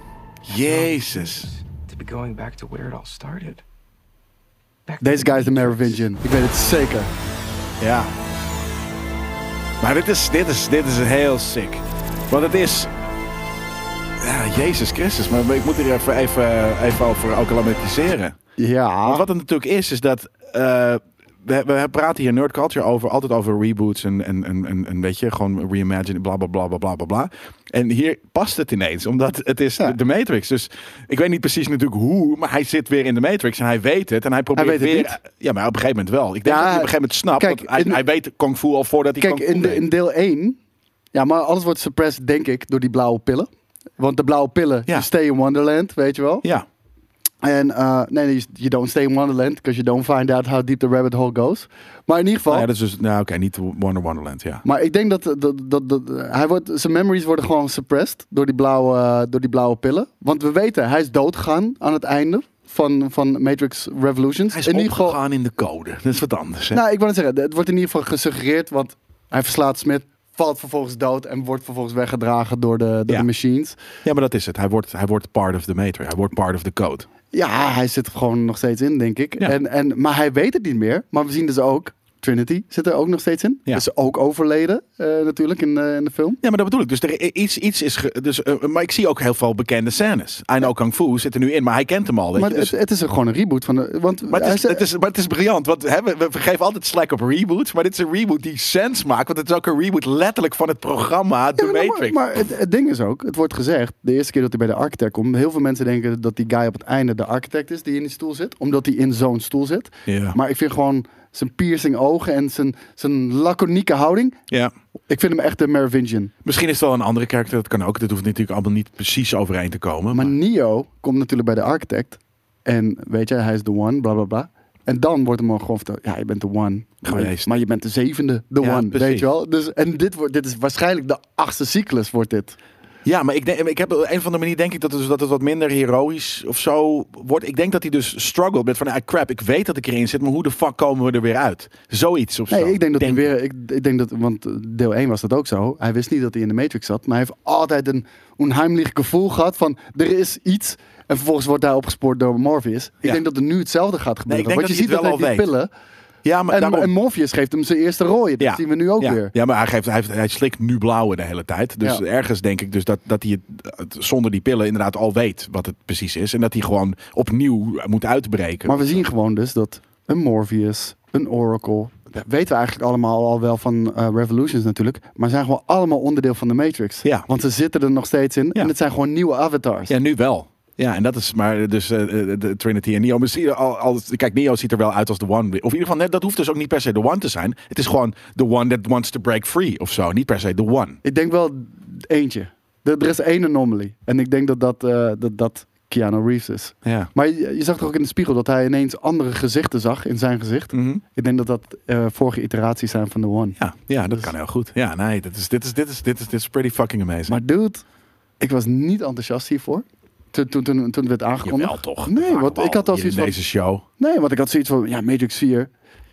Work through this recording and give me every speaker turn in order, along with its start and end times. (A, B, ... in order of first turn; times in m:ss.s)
0:00.4-0:01.5 A
0:00.5-0:03.6 B
0:04.8-0:06.0 B
0:05.0-0:07.1 C
0:07.8-0:08.1 A
0:09.8-0:12.9 A
0:14.2-0:18.4 A
0:18.6-0:19.2 C
0:19.0-0:39.8 A
0:34.5-0:35.2 C
0:36.4-0:38.0 C
0:39.2-0:40.6 C
0:41.1-0:46.4 C
0:47.4-0:52.7 C
0:52.5-0:54.6 A
0:54.6-1:05.2 C
1:04.5-1:06.8 A
1:06.7-1:13.8 C
1:14.0-1:17.1 A
1:17.3-1:26.4 C
1:26.4-1:32.7 A
1:32.3-1:34.8 C
1:34.3-1:42.2 A
1:41.6-1:54.4 C
1:50.0-1:50.4 A
1:55.1-1:56.3 C
1:56.4-2:00.4 A
2:00.1-2:12.6 C
2:07.0-2:07.5 A
2:08.6-2:09.3 A
2:13.0-2:23.2 A
2:22.5-2:35.7 C
2:34.3-2:35.5 A
2:36.2-2:36.9 A
2:36.5-2:39.3 C
2:38.4-2:49.0 A
2:48.6-2:59.9 C
2:59.9-3:11.0 A
3:11.0-3:23.6 C
3:16.8-3:17.1 A
3:20.7-3:21.0 A
3:23.6-3:27.4 A
3:27.3-3:27.8 C
3:28.4-3:33.4 C
3:31.4-3:33.8 A
3:34.0-3:35.7 C